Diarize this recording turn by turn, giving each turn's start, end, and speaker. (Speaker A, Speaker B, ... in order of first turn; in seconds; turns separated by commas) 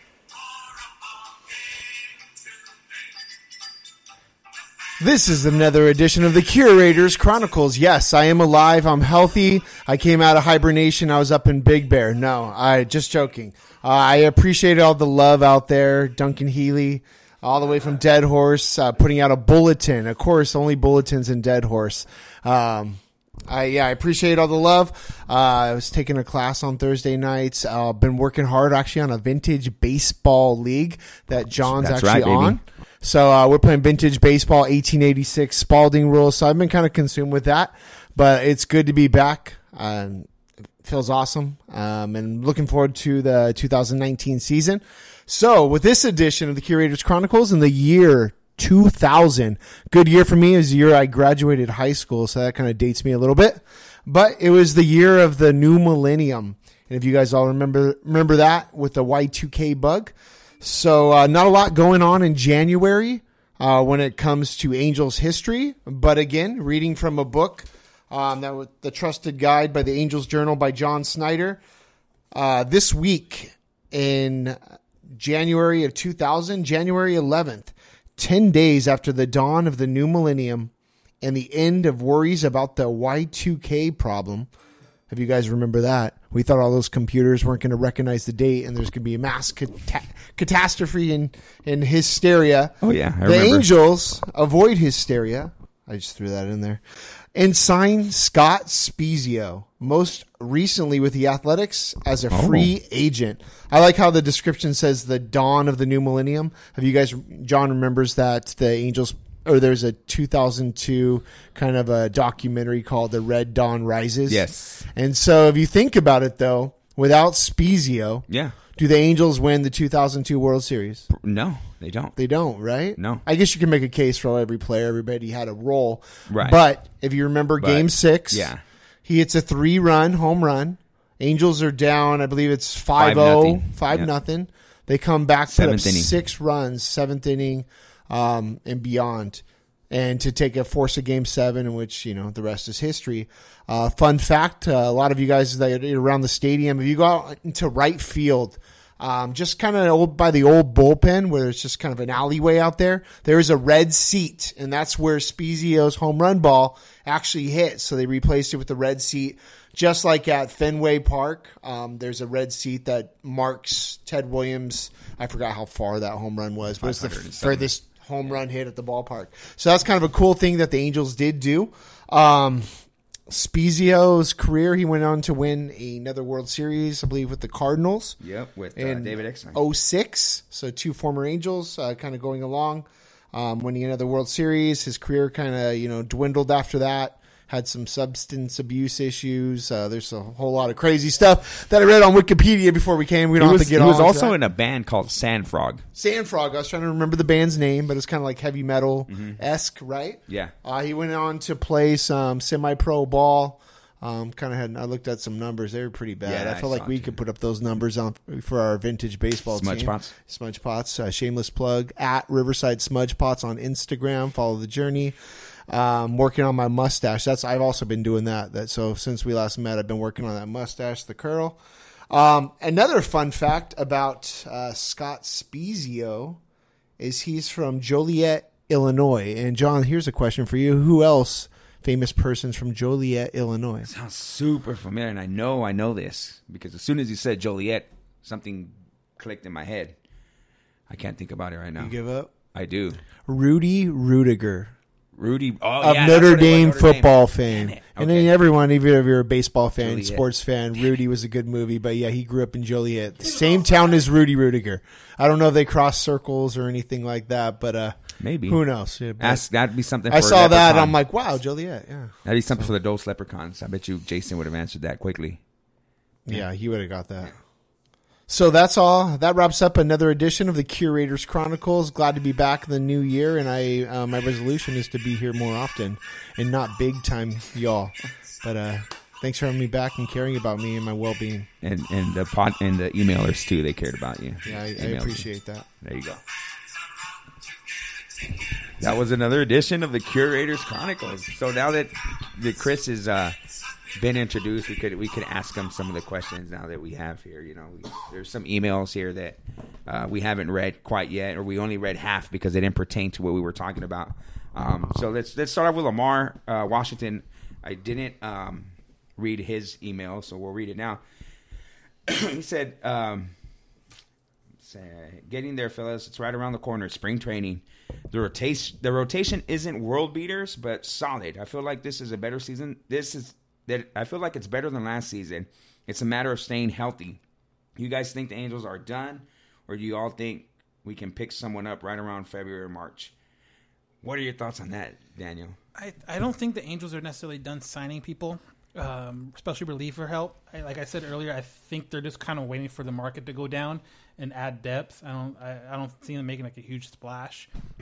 Speaker A: 5.0-40.3, Speaker B: 31.6-32.6, Speaker A: 40.8-71.6, Speaker A: 72.3-80.7, Speaker A: 81.2-84.5, Speaker A: 85.1-96.8, Speaker B: 92.8-93.7, Speaker A: 97.3-121.1, Speaker B: 102.3-102.7, Speaker B: 114.3-114.9, Speaker B: 118.3-118.6, Speaker B: 121.1-122.2, Speaker A: 122.2-178.2, Speaker B: 123.0-123.2, Speaker B: 126.3-126.6, Speaker B: 127.6-128.6, Speaker B: 133.0-134.1, Speaker B: 135.5-136.2, Speaker B: 166.8-168.4, Speaker B: 178.2-179.6, Speaker A: 178.8-194.4, Speaker B: 193.4-195.8, Speaker A: 195.9-215.2, Speaker B: 199.1-199.4, Speaker B: 200.3-200.6, Speaker B: 206.2-207.2, Speaker B: 209.5-210.1, Speaker A: 215.7-221.6, Speaker A: 222.1-226.4, Speaker A: 227.0-233.9, Speaker B: 233.8-240.0, Speaker B: 240.9-242.0, Speaker A: 241.8-242.3, Speaker B: 242.5-243.0, Speaker A: 243.2-244.7, Speaker B: 245.2-248.3, Speaker A: 245.8-259.5, Speaker B: 249.8-250.2, Speaker B: 258.2-258.6, Speaker B: 259.2-261.0, Speaker A: 260.1-262.7, Speaker B: 262.2-265.4, Speaker A: 266.3-267.4, Speaker A: 268.3-281.5, Speaker B: 281.6-286.2, Speaker A: 284.4-285.7, Speaker B: 288.6-293.4, Speaker B: 293.9-311.0, Speaker B: 312.1-313.4, Speaker B: 314.6-327.2, Speaker B: 327.8-333.1, Speaker B: 334.0-335.6, Speaker C: 335.8-347.5